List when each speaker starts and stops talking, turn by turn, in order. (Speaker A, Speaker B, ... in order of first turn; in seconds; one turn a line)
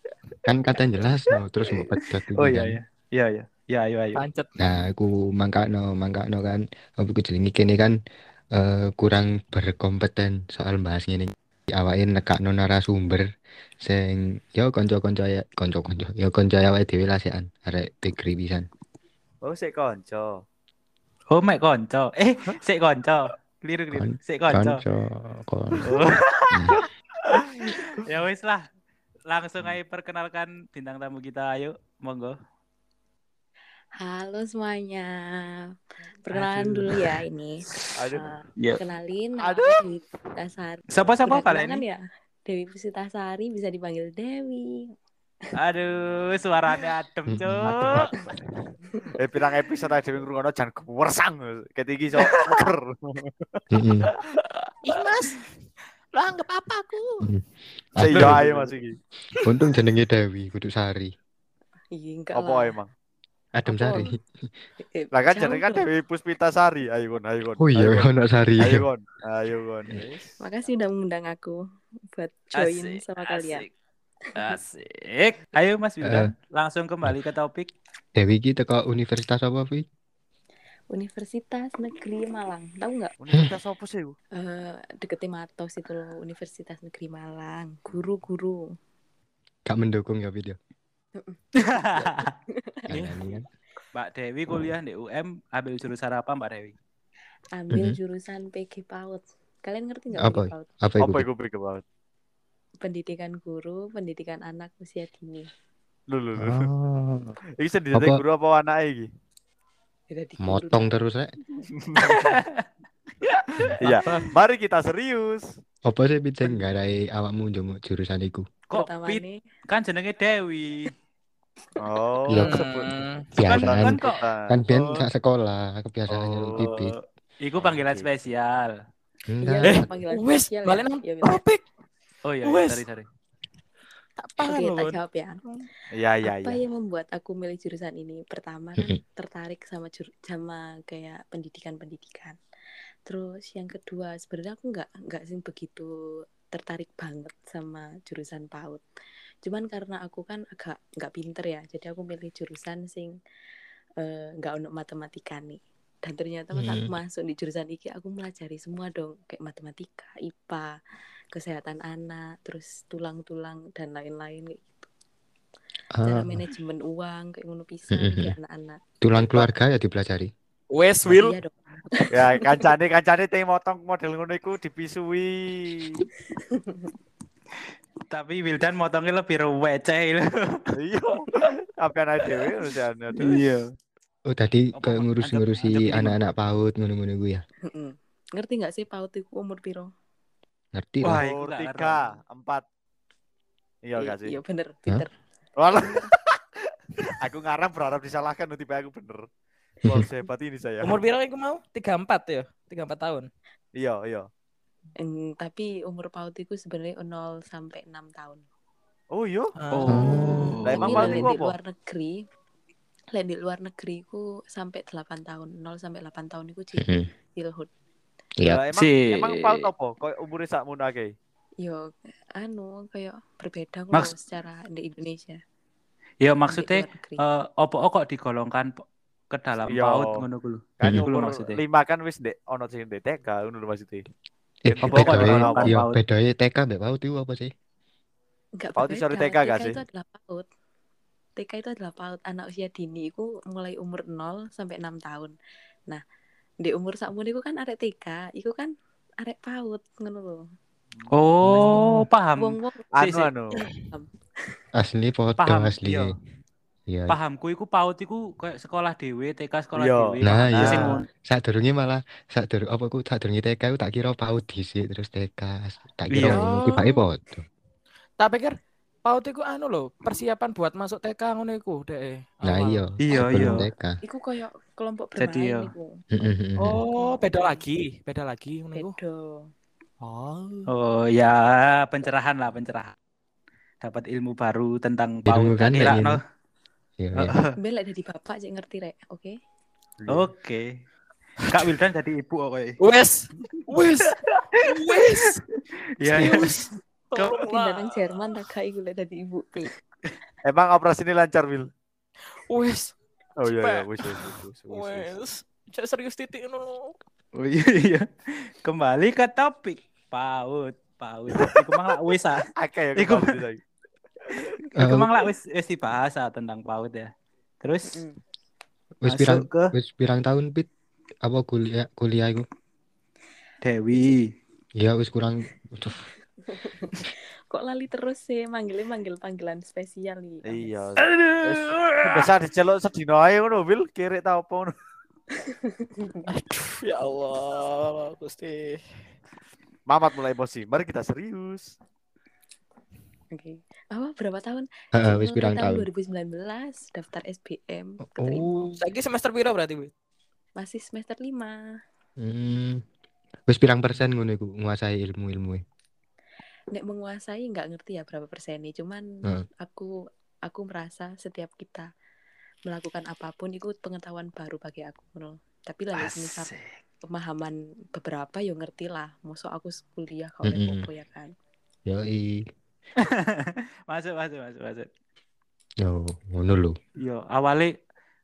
Speaker A: 0.5-2.8
Speaker B: 2.3-4.2
Speaker C: 4.2-4.8
Speaker A: 4.6-8.0
Speaker A: 8.5-13.3
Speaker A: 13.8-18.7
Speaker D: 19.4-20.4
Speaker B: 21.3-24.8
Speaker A: 23.9-26.0
Speaker B: 25.9-26.8
Speaker A: 26.5-26.8
Speaker B: 27.3-28.6
Speaker B: 29.3-32.4
Speaker E: 34.0-35.7
Speaker E: 36.3-44.9
Speaker B: 36.3-37.2
Speaker D: 38.0-38.3
Speaker B: 40.9-41.9
Speaker B: 45.5-48.1
Speaker A: 47.3-48.0
Speaker D: 48.1-48.4
Speaker D: 49.2-53.6
Speaker A: 53.7-54.1
Speaker C: 54.8-55.5
Speaker C: 56.1-57.3
Speaker A: 57.2-58.4
Speaker D: 58.0-59.0
Speaker B: 58.1-58.7
Speaker A: 59.4-61.1
Speaker E: 61.9-62.8
Speaker D: 62.3-62.9
Speaker A: 63.5-64.5
Speaker E: 63.7-64.1
Speaker E: 64.8-65.9
Speaker D: 65.1-68.1
Speaker A: 67.6-68.8
Speaker D: 68.6-70.3
Speaker E: 70.4-71.6
Speaker E: 72.1-73.7
Speaker B: 72.5-73.7
Speaker B: 74.3-77.7
Speaker A: 76.0-76.3
Speaker A: 78.2-79.8
Speaker E: 80.9-83.2
Speaker D: 83.2-84.2
Speaker E: 84.3-88.7
Speaker A: 89.7-90.6
Speaker E: 91.2-93.3
Speaker B: 91.6-92.3
Speaker A: 92.9-93.5
Speaker B: 94.0-96.8
Speaker E: 97.5-100.8
Speaker A: 100.2-101.3
Speaker D: 101.0-101.8
Speaker E: 102.8-105.5
Speaker D: 106.1-106.7
Speaker A: 106.4-107.4
Speaker D: 107.6-109.1
Speaker A: 107.9-108.2
Speaker E: 110.1-110.9
Speaker A: 110.4-111.3
Speaker D: 111.8-112.3
Speaker B: 112.0-112.6
Speaker D: 113.8-115.5
Speaker A: 115.9-118.4
Speaker B: 118.7-120.9
Speaker E: 118.7-119.4
Speaker D: 121.8-122.9
Speaker A: 122.3-122.5
Speaker C: 122.4-123.3
Speaker A: 123.4-126.9
Speaker B: 123.4-124.1
Speaker D: 123.4-125.0
Speaker D: 126.1-126.6
Speaker B: 126.6-128.8
Speaker D: 127.6-128.1
Speaker A: 129.3-129.9
Speaker E: 129.4-131.4
Speaker C: 130.1-131.6
Speaker B: 132.2-133.1
Speaker C: 132.4-132.8
Speaker C: 134.2-135.0
Speaker E: 134.4-135.6
Speaker D: 135.9-136.6
Speaker E: 136.2-142.4
Speaker E: 143.1-145.9
Speaker E: 146.5-148.8
Speaker E: 149.4-153.2
Speaker E: 154.0-160.8
Speaker A: 156.6-156.9
Speaker E: 161.3-164.9
Speaker A: 166.0-166.4
Speaker E: 166.0-168.8
Speaker A: 167.9-168.3
Speaker A: 169.0-170.3
Speaker C: 170.7-171.4
Speaker E: 171.1-172.7
Speaker D: 172.1-176.0
Speaker E: 176.3-176.9
Speaker B: 178.1-180.7
Speaker D: 180.8-183.4
Speaker B: 183.2-183.7
Speaker A: 184.3-187.4
Speaker B: 184.8-186.2
Speaker E: 187.7-189.9
Speaker A: 190.8-191.2
Speaker B: 191.0-192.1
Speaker D: 191.1-192.7
Speaker D: 193.8-194.4
Speaker E: 194.0-195.1
Speaker D: 195.6-196.3
Speaker E: 195.7-196.1
Speaker D: 197.1-199.2
Speaker D: 199.9-201.0
Speaker C: 200.8-203.3
Speaker D: 203.8-204.3
Speaker E: 205.0-208.4
Speaker D: 209.1-209.5
Speaker C: 209.6-210.2
Speaker B: 209.7-211.2
Speaker A: 209.9-210.5
Speaker D: 210.7-211.5
Speaker E: 210.7-212.2
Speaker E: 213.1-217.7
Speaker A: 216.8-217.1
Speaker D: 218.5-221.1
Speaker B: 218.8-219.7
Speaker E: 221.6-225.4
Speaker B: 226.2-231.6
Speaker E: 226.5-227.2
Speaker D: 229.7-230.2
Speaker D: 230.8-234.1
Speaker A: 234.7-237.5
Speaker D: 234.7-235.7
Speaker B: 234.8-236.0
Speaker E: 238.6-240.5
Speaker D: 238.8-239.8
Speaker E: 241.4-245.3
Speaker E: 246.6-250.4
Speaker D: 250.9-251.8
Speaker B: 251.1-253.3
Speaker E: 252.4-252.9
Speaker D: 252.9-253.7
Speaker E: 253.8-254.6
Speaker A: 254.8-256.1
Speaker B: 255.4-256.1
Speaker A: 256.9-257.2
Speaker B: 257.1-261.1
Speaker D: 259.8-261.0
Speaker A: 260.2-267.4
Speaker B: 266.1-266.4
Speaker C: 266.2-267.0
Speaker C: 268.2-272.9
Speaker A: 272.4-274.0
Speaker B: 273.0-273.7
Speaker E: 274.0-276.0
Speaker B: 275.2-275.7
Speaker A: 276.1-276.8
Speaker C: 276.6-279.0
Speaker E: 276.9-277.6
Speaker E: 278.7-279.5
Speaker C: 280.0-280.7
Speaker B: 280.7-282.9
Speaker B: 283.8-286.2
Speaker A: 285.3-286.2
Speaker A: 287.0-287.3
Speaker B: 287.1-287.5
Speaker E: 287.6-289.4
Speaker D: 290.0-290.3
Speaker B: 290.1-290.8
Speaker B: 291.5-292.8
Speaker C: 292.8-295.4
Speaker B: 294.6-295.0
Speaker B: 296.0-296.5
Speaker C: 296.1-298.0
Speaker E: 297.4-299.7
Speaker D: 300.4-301.7
Speaker C: 302.4-307.0
Speaker D: 303.4-305.1
Speaker B: 307.4-308.1
Speaker B: 308.6-313.3
Speaker D: 312.5-313.6
Speaker D: 314.3-314.6
Speaker A: 314.8-315.1
Speaker B: 314.8-317.1
Speaker B: 317.6-318.0
Speaker E: 317.9-318.2
Speaker A: 319.0-320.7
Speaker B: 319.1-319.7
Speaker A: 321.2-322.5
Speaker B: 323.6-324.3
Speaker A: 324.8-326.0
Speaker E: 326.5-330.9
Speaker D: 330.5-334.7
Speaker B: 331.1-332.0
Speaker E: 335.3-336.3
Speaker C: 336.3-338.9
Speaker D: 339.9-341.7
Speaker E: 343.3-348.8
Speaker A: 345.0-345.9
Speaker A: 348.1-348.7
Speaker C: 348.8-349.9
Speaker E: 350.6-351.6
Speaker A: 352.2-352.8
Speaker A: 353.5-355.6
Speaker E: 356.7-359.9
Speaker E: 360.4-361.9
Speaker E: 362.7-366.5
Speaker B: 365.9-366.8
Speaker E: 367.0-371.3
Speaker A: 370.5-370.9
Speaker A: 371.9-372.5
Speaker B: 373.0-374.9
Speaker A: 375.8-376.8
Speaker B: 377.0-377.7